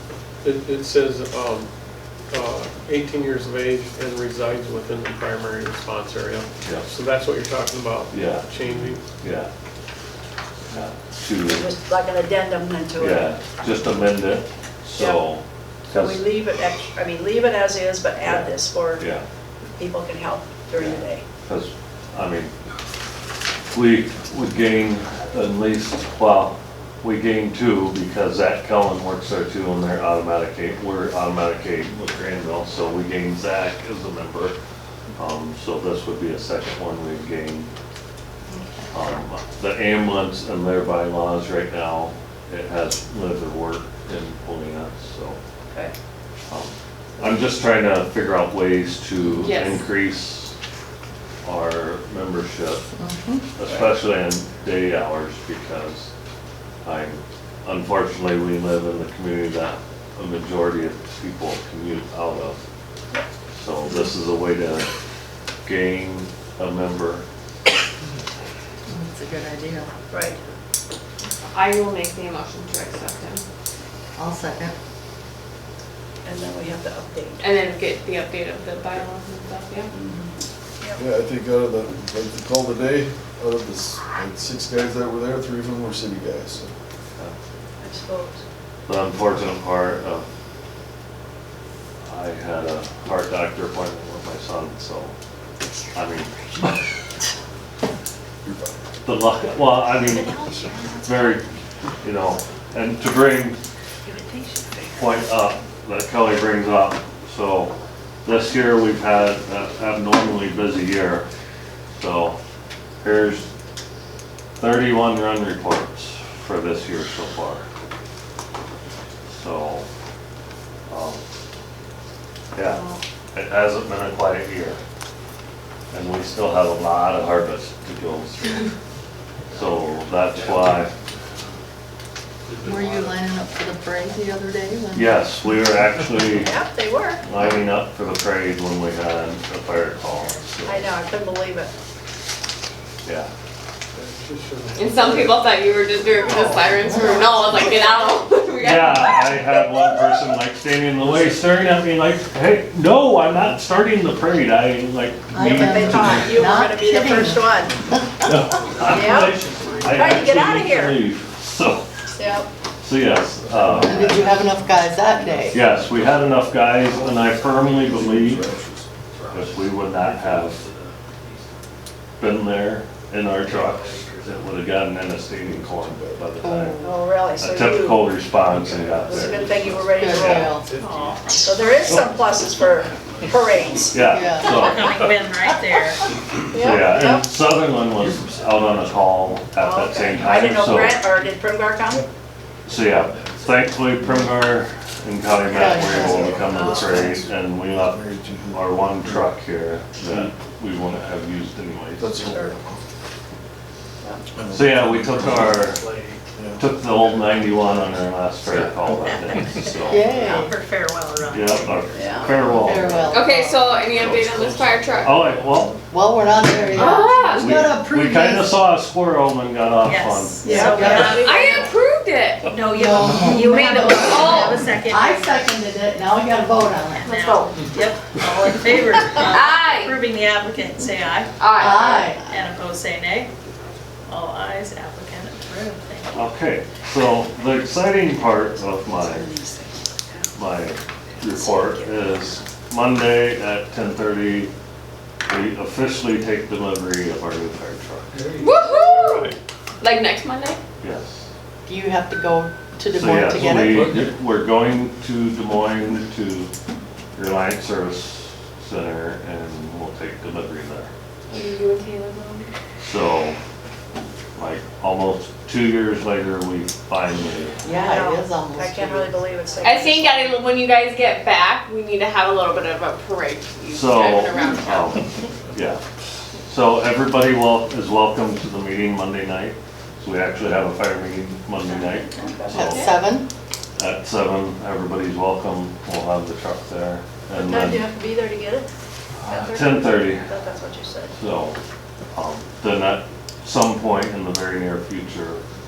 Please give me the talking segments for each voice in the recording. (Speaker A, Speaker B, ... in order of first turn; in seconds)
Speaker A: 0.4-1.7, 2.3-9.0, 143.9-147.0
Speaker B: 8.1-8.5, 9.2-9.5, 10.7-11.7, 13.0-16.2, 18.2-19.2, 20.8-22.5, 23.7-34.5, 35.2-37.7, 38.9-45.4, 46.5-50.5, 51.4-52.8, 53.5-56.1, 56.8-62.6, 63.5-64.9, 65.6-67.2, 88.8-90.2, 92.1-95.1, 95.9-96.9, 99.0-101.5, 102.0-103.6, 104.9-111.3, 112.0-112.4, 113.0-113.5, 114.6-117.6, 119.3-119.9, 120.9-121.2, 122.5-122.8, 123.3-124.8, 125.9-128.7, 129.5-130.9, 134.9-136.6, 137.2-140.8, 143.0-143.3, 148.6-156.2, 158.2-161.9, 162.8-164.3, 165.5-168.5, 169.3-170.6, 172.2-176.8, 177.3-179.5, 180.1-180.6, 183.9-185.1, 186.5-191.1, 192.6-202.3, 204.5-205.8, 206.6-210.1, 211.3-213.1, 215.0-215.8, 217.4-220.9, 236.1-239.3, 240.3-244.5, 245.3-248.3, 250.8-251.2, 252.9-256.5, 257.1-260.9, 262.8-263.4, 264.4-267.6, 273.7-275.8, 276.5-282.9, 283.8-287.8, 289.2-290.3, 291.1-291.6, 292.1-295.4
Speaker C: 11.4-13.3, 14.9-15.2, 15.9-19.1, 19.7-21.2, 53.7-53.9, 70.1-70.4, 76.2-77.4, 79.9-81.0, 87.8-88.4, 136.4-137.2, 140.6-141.7, 155.4-157.7, 158.9-161.0, 162.2-162.5, 176.8-178.1, 179.1-180.6, 181.4-184.0, 186.5-187.3, 189.6-192.0, 196.0-196.9, 202.2-202.5, 209.9-210.5, 211.9-212.4, 220.4-221.2, 238.3-240.3, 241.1-242.4, 267.7-270.4, 282.1-282.5, 287.3-288.7, 289.3-291.1
Speaker D: 38.5-38.9, 52.9-53.4, 68.9-69.9, 74.2-74.7, 132.6-135.2, 146.8-147.7, 155.3-157.5, 163.8-165.7, 176.4-177.0, 179.9-180.7, 184.0-184.6, 195.4-196.3, 209.8-210.6, 212.6-213.8, 215.9-218.6, 220.4-221.2, 222.7-227.3, 231.5-232.2, 251.7-254.1, 267.6-269.1, 282.5-283.2
Speaker E: 49.4-49.8, 71.5-73.4, 77.4-79.9, 144.8-150.2, 158.8-159.9, 181.4-181.7, 213.0-215.5, 216.7-217.6, 220.9-222.5, 223.4-224.7, 227.1-227.6, 229.2-230.0, 231.4-232.0, 248.3-250.6, 261.3-262.5, 269.6-275.0, 282.6-282.9
Speaker F: 81.0-86.7, 98.4-98.8, 163.7-164.0, 166.8-168.9, 175.4-176.4, 194.0-194.3, 195.7-199.3, 202.0-202.8, 204.3-205.8, 206.3-206.7
Speaker G: 99.9-101.4, 104.0-105.4, 180.7-181.4, 184.4-186.0, 209.0-211.8, 219.8-221.7, 222.5-225.4, 227.1-231.3, 231.9-233.3, 234.0-236.2, 281.7-281.9